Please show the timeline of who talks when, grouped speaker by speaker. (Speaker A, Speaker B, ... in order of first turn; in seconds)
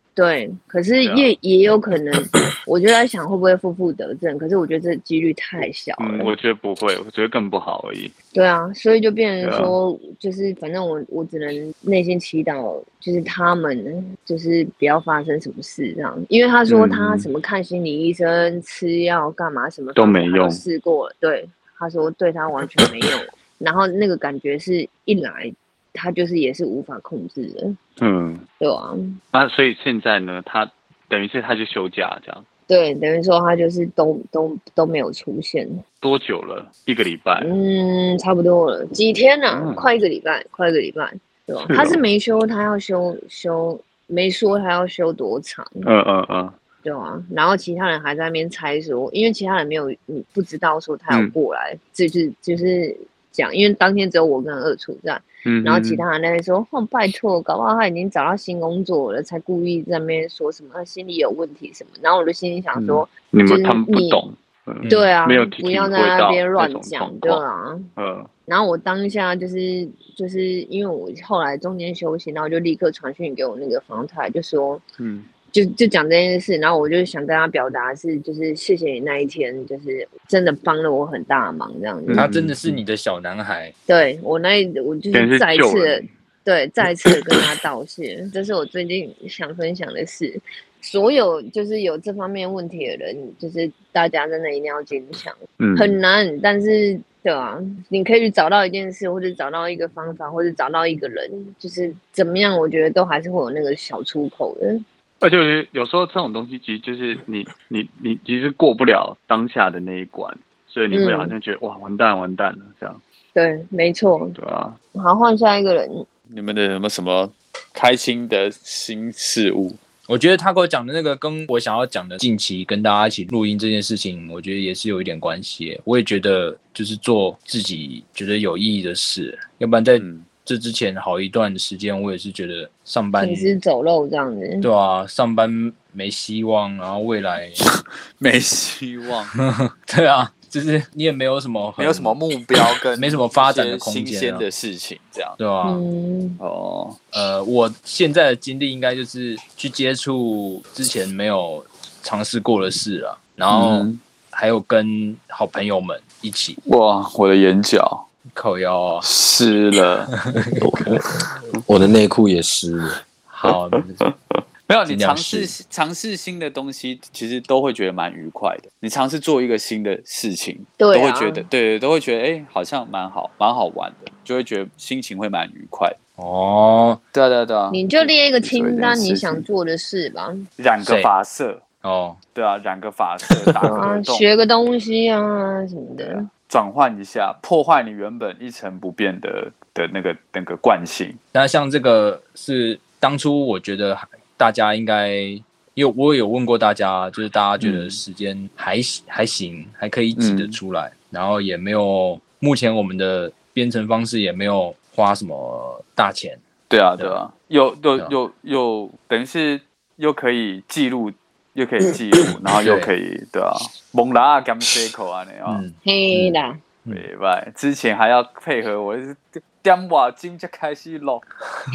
Speaker A: 0.1-6.3, 8.3-27.8, 28.6-29.2, 32.7-35.8, 37.4-45.9, 46.8-64.2, 64.8-67.9, 68.5-74.8, 75.5-82.3, 83.9-104.8, 110.9-111.3, 113.3-114.3, 114.9-116.0, 133.2-134.7, 145.6-146.4, 170.8-171.5, 177.7-180.4, 183.7-186.3, 215.8-216.6
Speaker B: 1.0-1.3, 6.0-8.1, 9.4-9.8, 16.7-17.3, 19.9-20.6, 28.0-28.4, 29.3-32.4, 36.0-37.5, 39.5-39.9, 41.7-42.0, 45.8-46.5, 55.4-56.0, 62.7-67.4, 68.0-68.3, 75.0-75.3, 82.1-82.7, 85.1-86.1, 95.6-96.0, 105.2-113.0, 114.3-114.8, 116.3-119.8, 130.0-130.3, 137.6-139.3, 141.8-145.4, 146.4-147.0, 153.5-154.0, 156.6-158.0, 159.0-160.1, 164.7-175.9, 177.1-179.4, 180.6-181.6, 182.3-184.3, 186.0-191.2, 197.6-198.0, 200.2-200.6, 206.7-215.6, 216.9-221.2
Speaker C: 64.8-65.1, 82.1-83.7, 120.1-133.6, 134.6-137.6, 139.4-142.2, 142.9-144.4, 145.4-145.8, 147.1-156.6, 158.3-159.1, 160.1-160.6, 163.3-164.1, 164.9-165.5, 176.2-177.0, 180.8-181.1, 181.8-182.2, 191.3-206.4, 212.6-212.9, 215.4-216.3
Speaker D: 160.6-163.0